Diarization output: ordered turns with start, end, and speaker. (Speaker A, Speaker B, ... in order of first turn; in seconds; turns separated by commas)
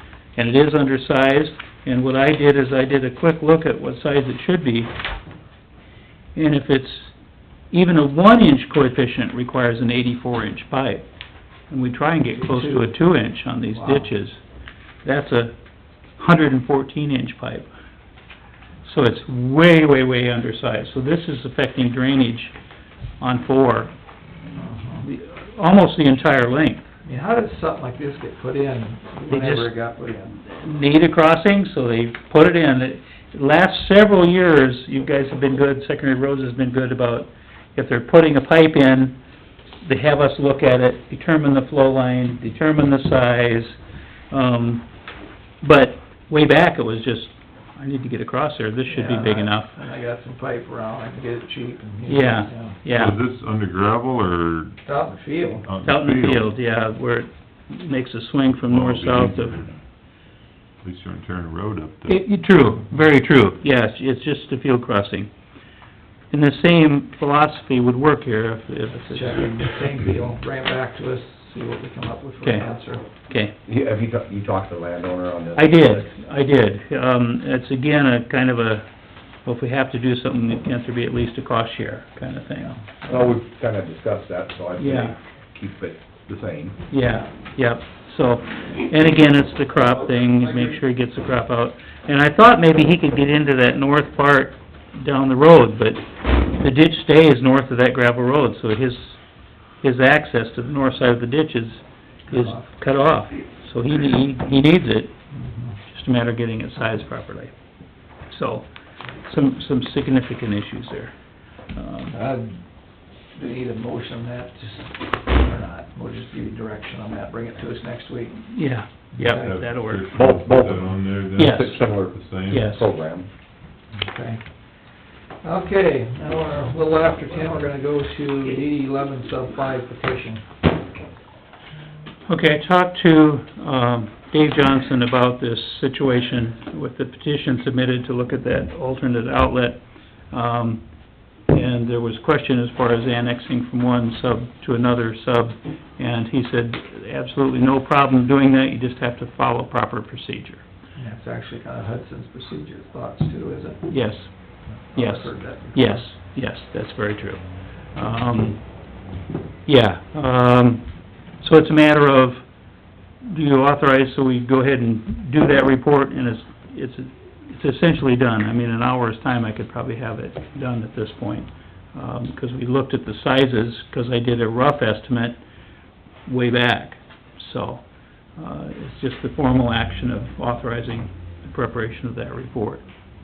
Speaker A: 0.4-4.9, Speaker A: 6.3-7.1, Speaker A: 7.7-11.1, Speaker A: 11.7-14.4, Speaker B: 12.3-13.0, Speaker B: 13.8-14.1, Speaker A: 15.0-15.6, Speaker A: 16.2-17.7, Speaker A: 18.9-22.5, Speaker A: 23.2-23.9, Speaker B: 24.6-25.1, Speaker A: 25.0-26.9, Speaker B: 27.0-30.3, Speaker A: 29.3-29.7, Speaker A: 30.4-39.2, Speaker A: 39.8-43.8, Speaker A: 44.3-44.9, Speaker A: 45.6-49.8, Speaker B: 48.9-52.8, Speaker A: 52.1-53.2, Speaker C: 52.9-54.8, Speaker B: 54.9-55.7, Speaker C: 55.6-56.5, Speaker A: 55.8-59.7, Speaker C: 58.7-59.7, Speaker C: 60.8-62.2, Speaker A: 62.1-65.3, Speaker A: 66.3-69.6, Speaker B: 69.0-73.1, Speaker A: 72.4-72.7, Speaker A: 73.2-73.5, Speaker D: 73.7-76.1, Speaker A: 75.5-78.9, Speaker A: 79.5-82.8, Speaker D: 83.1-86.8, Speaker A: 84.8-85.1, Speaker A: 86.9-99.2, Speaker A: 99.8-105.1, Speaker B: 102.3-102.6, Speaker B: 105.3-105.8, Speaker A: 105.9-107.5, Speaker A: 108.3-108.7, Speaker A: 109.2-111.1, Speaker A: 111.7-112.2, Speaker B: 112.1-112.5, Speaker B: 113.3-118.5, Speaker A: 118.5-120.1, Speaker B: 119.1-119.6, Speaker C: 119.2-122.7, Speaker D: 120.1-120.9, Speaker A: 121.4-121.8, Speaker D: 121.4-123.3, Speaker A: 122.5-122.9, Speaker B: 124.0-124.4, Speaker B: 125.4-130.4, Speaker A: 132.3-140.8, Speaker A: 141.5-150.6, Speaker B: 151.0-154.0, Speaker A: 153.9-158.6, Speaker B: 154.9-156.1, Speaker A: 159.7-162.4, Speaker A: 163.2-175.4, Speaker A: 176.3-177.8, Speaker A: 178.3-182.9